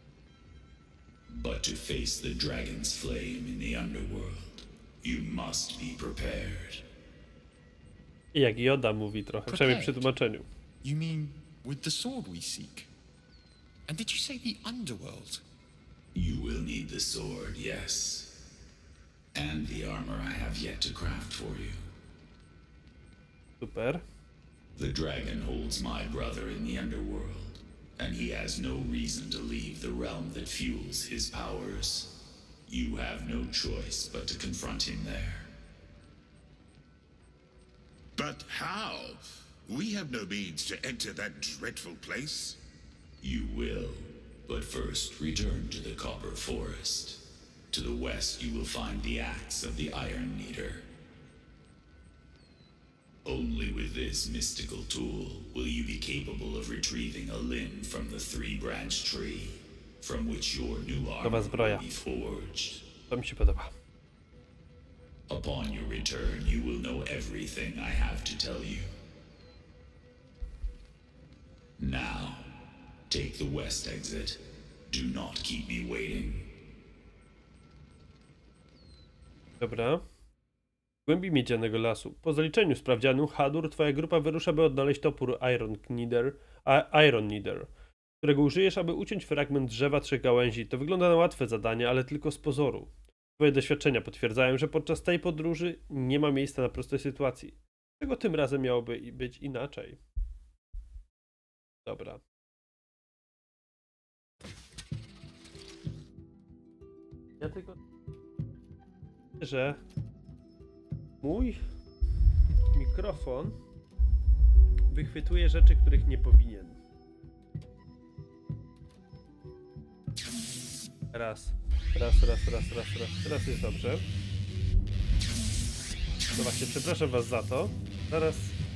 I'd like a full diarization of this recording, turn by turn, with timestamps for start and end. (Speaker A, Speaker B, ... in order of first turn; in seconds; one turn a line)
Speaker A: 1.3-6.8
Speaker B: 8.3-10.4
Speaker C: 9.5-10.1
Speaker C: 10.8-12.9
Speaker C: 13.9-15.4
Speaker A: 16.1-18.3
Speaker A: 19.3-21.8
Speaker B: 23.6-24.0
Speaker A: 24.8-35.5
Speaker D: 38.1-42.6
Speaker A: 43.2-50.9
Speaker A: 53.2-62.9
Speaker B: 61.2-61.8
Speaker B: 63.1-63.7
Speaker A: 65.3-68.9
Speaker A: 71.8-76.5
Speaker B: 79.6-80.0
Speaker B: 81.0-87.7
Speaker B: 88.2-100.0
Speaker B: 101.8-102.2
Speaker B: 107.4-107.8
Speaker B: 109.4-109.8
Speaker B: 111.2-111.6
Speaker B: 112.7-113.6
Speaker B: 114.9-116.8
Speaker B: 121.1-124.0
Speaker B: 126.3-128.6